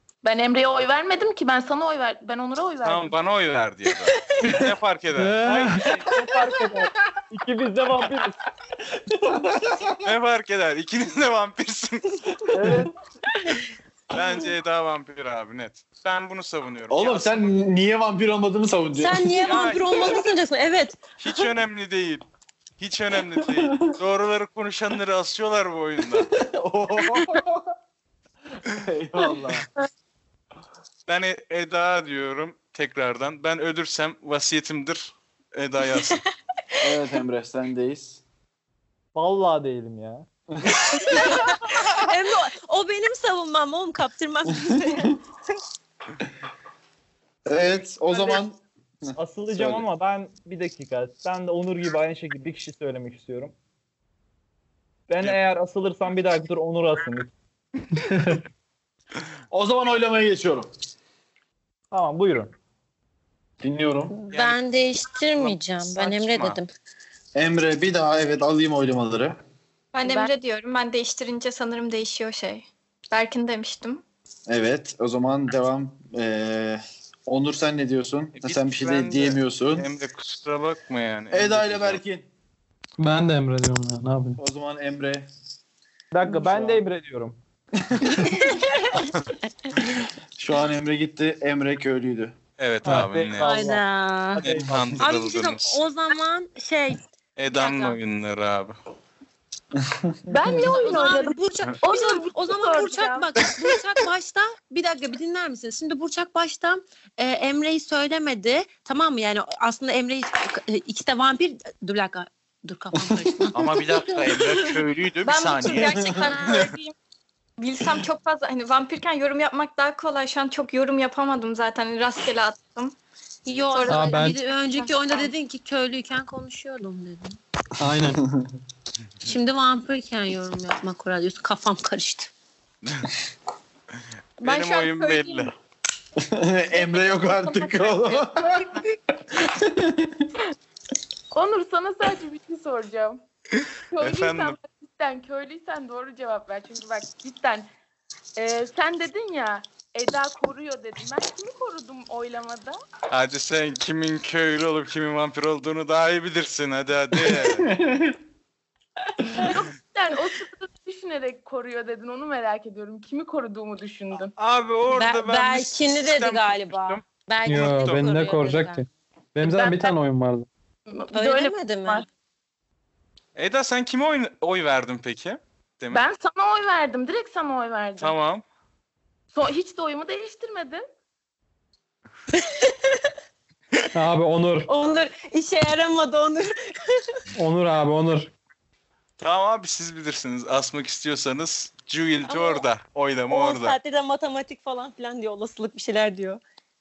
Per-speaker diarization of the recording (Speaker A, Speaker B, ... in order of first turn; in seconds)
Speaker A: 0.2-3.1, 70.1-70.3, 100.3-103.3, 136.7-138.2, 141.3-143.2, 143.9-147.7, 148.4-152.8, 159.3-164.3, 169.4-169.9, 170.9-172.1, 175.9-178.2, 179.3-180.8
Speaker B: 2.8-5.7, 10.1-12.6, 14.1-17.6, 19.4-20.2, 21.2-22.2, 22.8-26.3, 31.1-36.2, 64.3-64.6, 65.4-66.6, 78.4-82.0, 92.6-93.5, 94.4-95.8, 97.4-98.8, 113.5-116.6, 134.4-135.5, 144.0-144.6, 153.1-157.7, 164.4-168.0, 173.4-176.0, 178.0-178.4, 189.2-193.8
Speaker C: 5.2-5.9, 58.1-58.4, 83.0-84.4, 123.9-124.4, 127.8-128.2, 167.5-170.5, 183.9-184.7, 187.4-188.3
Speaker D: 5.5-8.4, 39.1-40.3, 49.2-53.5, 55.1-57.3, 61.9-62.5, 86.1-87.4, 92.8-93.8, 94.3-95.1
Speaker E: 9.1-10.2, 12.5-12.9, 16.9-19.3, 23.3-23.9, 26.2-27.7, 28.7-29.7, 36.8-38.2, 40.5-40.8, 47.5-49.9, 59.5-60.7, 63.6-64.1, 67.3-69.4, 74.5-79.9, 81.3-82.3, 84.4-85.3, 87.9-88.3, 90.4-92.4, 99.9-100.6, 113.0-113.5, 115.7-116.6, 136.2-140.3, 157.1-158.2
Speaker F: 19.0-21.0, 41.0-45.2, 64.1-66.7, 88.2-89.1, 93.4-94.5, 95.0-98.0, 100.5-114.0, 123.5-127.4, 129.2-132.3, 164.9-168.8, 171.1-172.1, 182.4-183.0, 184.7-187.0, 192.2-192.6, 193.3-196.4
Speaker G: 69.9-74.0, 115.2-117.0, 117.6-123.0, 123.7-124.3, 134.4-135.5